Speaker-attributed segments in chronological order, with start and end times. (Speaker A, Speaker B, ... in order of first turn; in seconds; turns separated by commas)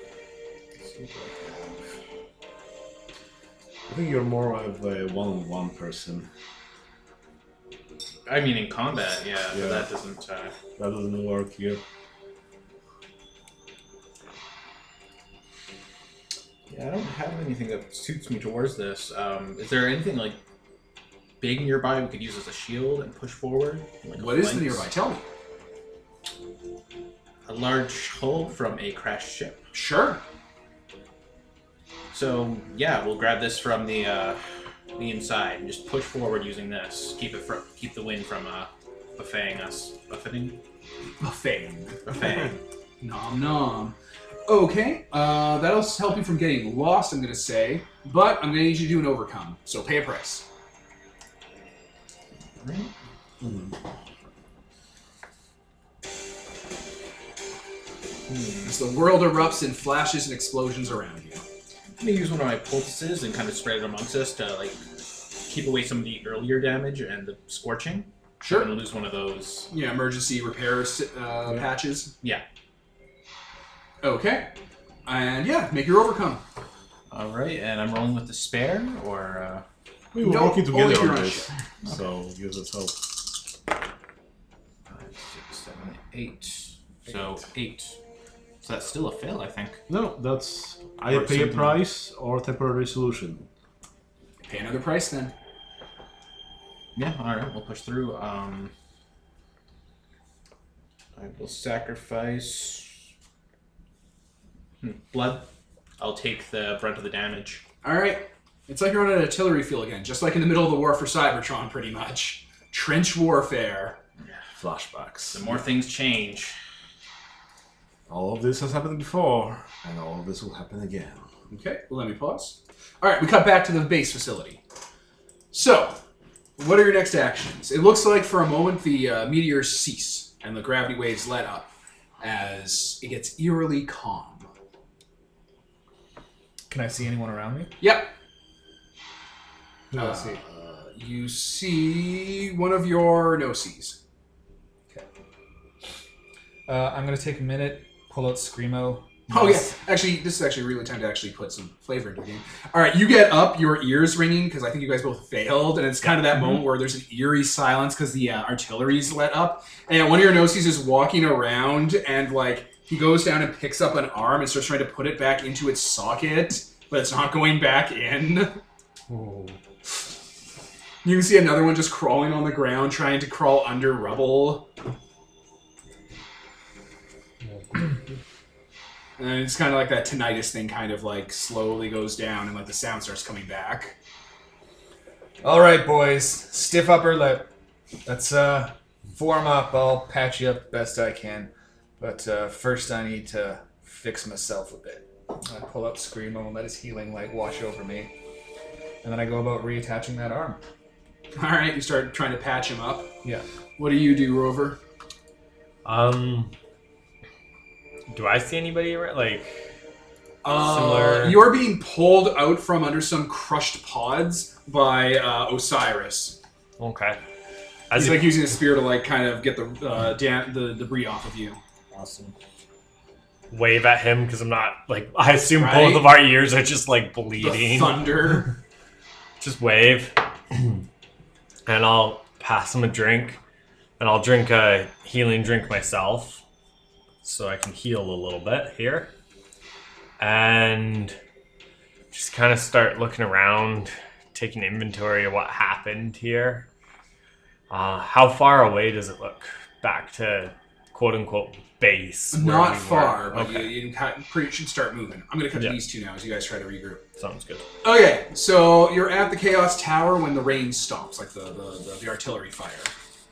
Speaker A: 0.8-1.9, Speaker B: 3.9-6.3, Speaker A: 8.3-10.6, Speaker B: 9.5-9.9, Speaker B: 10.8-11.8, Speaker A: 16.7-20.4, Speaker A: 21.4-24.9, Speaker C: 24.2-25.2, Speaker A: 27.5-29.6, Speaker C: 29.7-30.2, Speaker A: 32.1-34.4, Speaker A: 35.0-40.6, Speaker C: 41.2-42.1, Speaker A: 42.1-42.6, Speaker C: 43.0-44.0, Speaker C: 44.5-50.5, Speaker A: 52.6-52.9, Speaker B: 53.4-53.8, Speaker A: 58.3-58.7, Speaker C: 58.6-61.4, Speaker A: 62.0-64.8, Speaker A: 65.4-69.7, Speaker C: 68.4-68.7, Speaker C: 69.7-72.1, Speaker C: 74.0-74.5, Speaker C: 75.1-76.4, Speaker A: 77.1-79.7, Speaker B: 80.1-83.0, Speaker C: 80.2-81.5, Speaker A: 84.9-88.0, Speaker A: 88.6-89.8, Speaker B: 89.9-93.5, Speaker A: 91.1-91.8, Speaker C: 94.4-95.3, Speaker A: 97.0-98.7, Speaker A: 101.2-102.9, Speaker A: 104.8-107.6, Speaker C: 107.8-114.0, Speaker B: 114.6-115.6, Speaker A: 115.3-116.6, Speaker B: 118.1-121.3, Speaker C: 121.5-124.6, Speaker C: 125.5-126.0, Speaker C: 126.6-134.5, Speaker D: 136.7-137.7, Speaker C: 137.8-138.1, Speaker D: 139.9-140.4, Speaker C: 139.9-144.0, Speaker D: 146.7-149.6, Speaker C: 149.3-168.6, Speaker E: 169.1-169.6, Speaker C: 171.0-174.7, Speaker E: 177.4-177.9, Speaker C: 179.2-183.9, Speaker D: 185.4-187.5, Speaker D: 188.1-198.1, Speaker D: 199.0-200.6, Speaker C: 201.3-203.1, Speaker C: 203.8-204.8, Speaker E: 205.8-206.5, Speaker E: 208.1-209.6, Speaker C: 210.4-216.4, Speaker E: 210.5-211.5, Speaker E: 216.8-217.2, Speaker E: 217.9-218.5, Speaker C: 217.9-221.6, Speaker E: 221.9-222.3, Speaker E: 223.5-228.4, Speaker C: 225.5-226.1, Speaker C: 227.4-228.5, Speaker E: 229.4-230.8, Speaker E: 231.7-233.4, Speaker E: 234.0-236.4, Speaker E: 237.2-239.1, Speaker E: 240.2-241.2, Speaker E: 242.1-246.7, Speaker E: 247.7-253.8, Speaker C: 252.3-257.0, Speaker E: 255.6-255.8, Speaker E: 257.2-257.7, Speaker C: 257.8-262.9